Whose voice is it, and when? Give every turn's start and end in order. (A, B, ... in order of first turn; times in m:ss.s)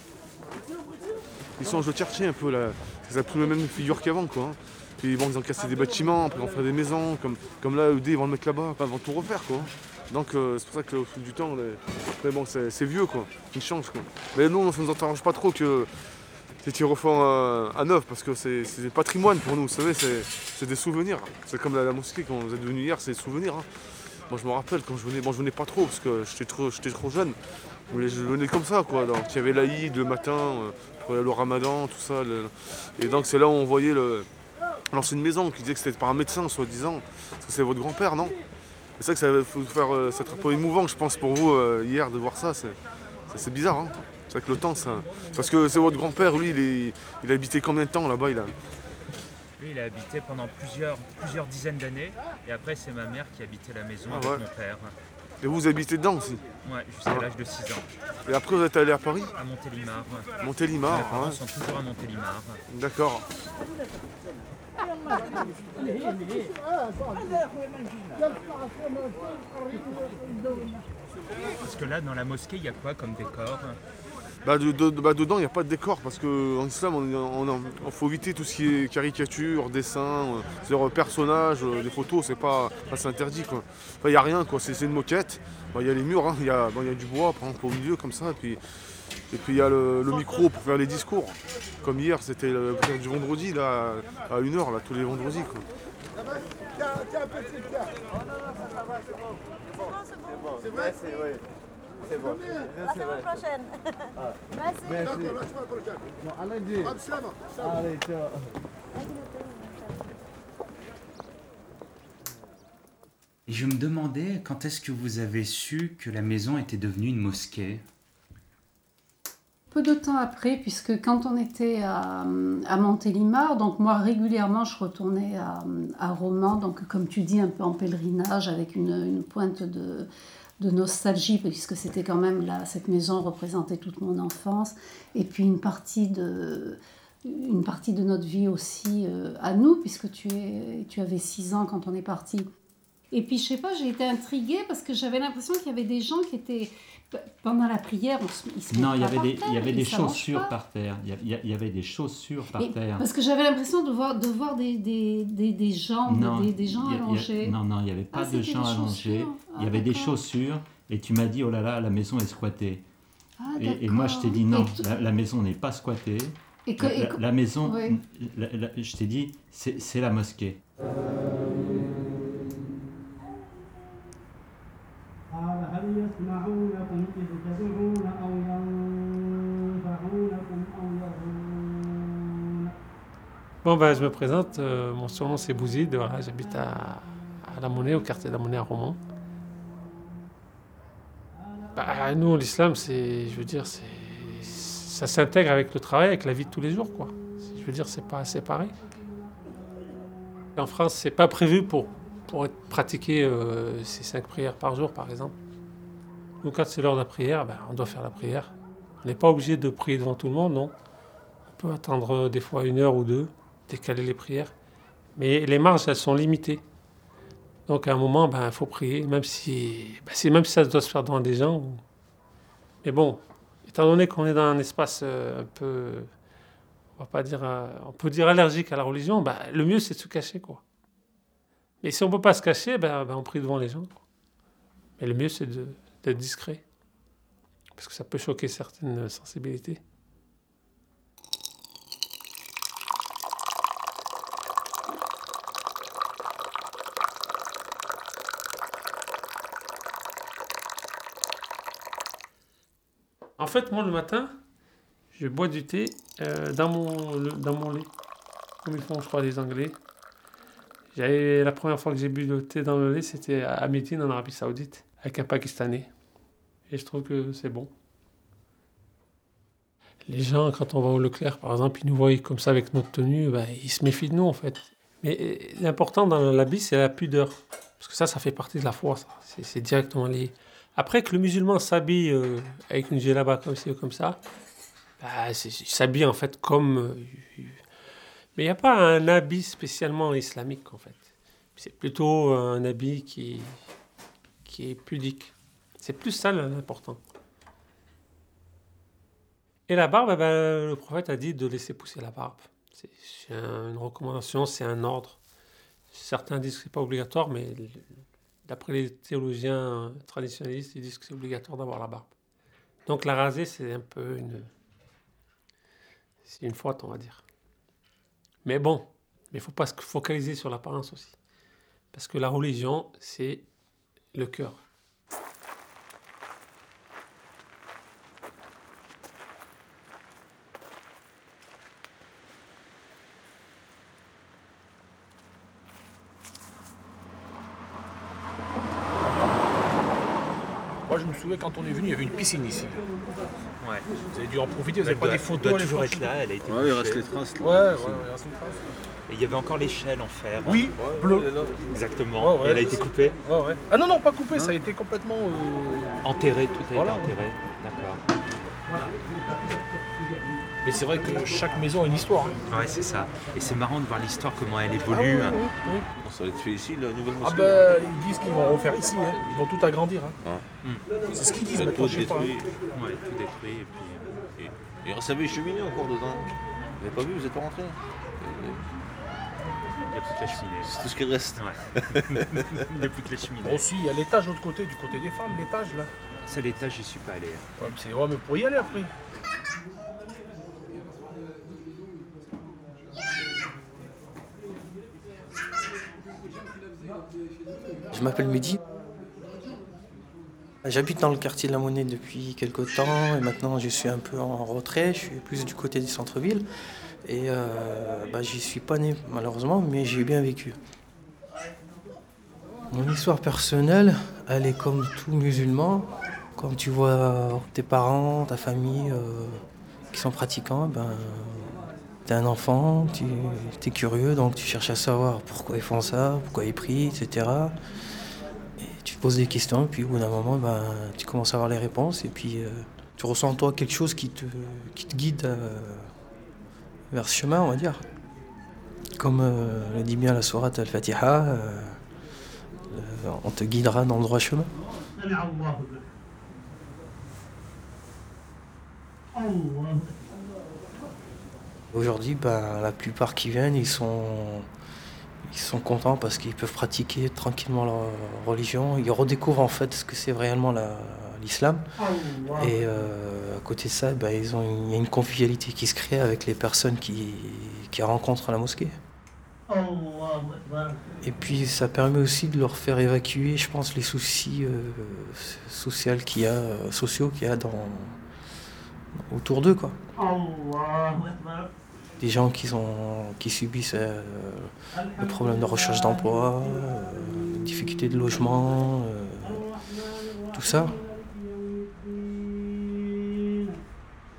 0:01.6-0:15.9 A
0:16.6-0:23.6 A
0:24.3-0:27.4 A
0:27.9-0:34.3 A
0:34.9-0:38.3 A
0:39.0-0:42.8 A
0:43.3-0:48.5 A
0:49.6-0:54.9 B
0:54.1-0:54.4 A
0:55.4-0:56.4 A
0:56.6-0:57.9 B
0:58.3-0:59.3 A
0:59.4-1:02.6 B
1:00.4-1:01.4 A
1:02.7-1:03.2 A
1:11.6-1:13.8 B
1:14.4-1:28.6 A
1:29.3-1:35.6 A
1:53.5-1:57.8 B
1:59.7-2:10.1 C
2:10.6-2:22.5 C
2:23.1-2:30.6 C
2:28.7-2:33.0 D
2:32.6-2:37.6 C
2:36.0-2:42.8 D
2:38.1-2:40.2 C
2:43.4-2:44.9 C
2:43.5-2:50.6 D
2:46.6-2:48.0 C
3:03.6-3:09.0 E
3:11.8-3:18.7 E
3:20.6-3:25.3 E
3:26.4-3:30.7 E
3:31.5-3:34.5 E
3:35.2-3:36.6 E
3:37.7-3:41.8 E
3:42.8-3:46.1 E
3:47.0-3:50.6 E
3:51.8-3:53.9 E
3:55.0-3:56.6 E
3:57.8-3:59.8 E
4:13.4-4:14.4 E
4:15.1-4:17.9 E
4:18.6-4:19.8 E
4:20.9-4:25.9 E
4:26.7-4:27.7 E
4:30.0-4:44.2 E
4:45.0-4:47.6 E
4:48.3-4:51.0 E
4:51.6-4:53.6 E
4:54.4-4:57.0 E
4:59.7-5:05.2 E
5:05.9-5:07.8 E
5:08.4-5:12.1 E
5:12.8-5:14.5 E
5:16.2-5:17.2 E
5:18.4-5:21.1 E
5:21.9-5:23.4 E
5:24.1-5:24.6 E
5:40.9-5:42.8 F
5:43.6-5:43.8 B
5:44.1-5:46.1 F
5:44.8-5:47.1 B
5:46.4-5:48.1 G
5:47.4-5:48.6 F
5:49.1-5:50.7 B
5:50.4-5:51.3 F
5:50.7-5:51.6 G
5:51.7-5:53.2 B
5:52.2-5:56.0 F
5:56.0-5:58.0 B
5:56.7-5:57.1 F
6:00.6-6:02.3 F
6:02.5-6:05.4 B
6:04.9-6:05.9 F
6:06.0-6:07.8 G
6:07.2-6:10.2 F
6:11.1-6:12.3 F
6:11.3-6:12.5 G
6:12.7-6:14.0 B
6:14.3-6:18.6 G
6:19.9-6:20.8 B
6:20.6-6:22.6 G
6:21.3-6:23.7 B
6:23.4-6:25.9 F
6:26.2-6:27.7 B
6:27.6-6:28.9 F
6:37.9-6:38.6 H
6:40.6-6:46.4 H
6:47.0-6:50.6 H
6:52.7-7:07.5 H
7:08.6-7:15.9 H
7:16.9-7:17.8 H
7:19.0-7:21.8 H
7:22.7-7:24.5 H
7:31.7-7:34.5 H
7:35.2-7:41.6 H
7:42.3-7:48.7 H
7:51.0-7:58.0 H
7:59.1-7:59.8 H
8:02.0-8:09.4 H
8:10.3-8:10.8 H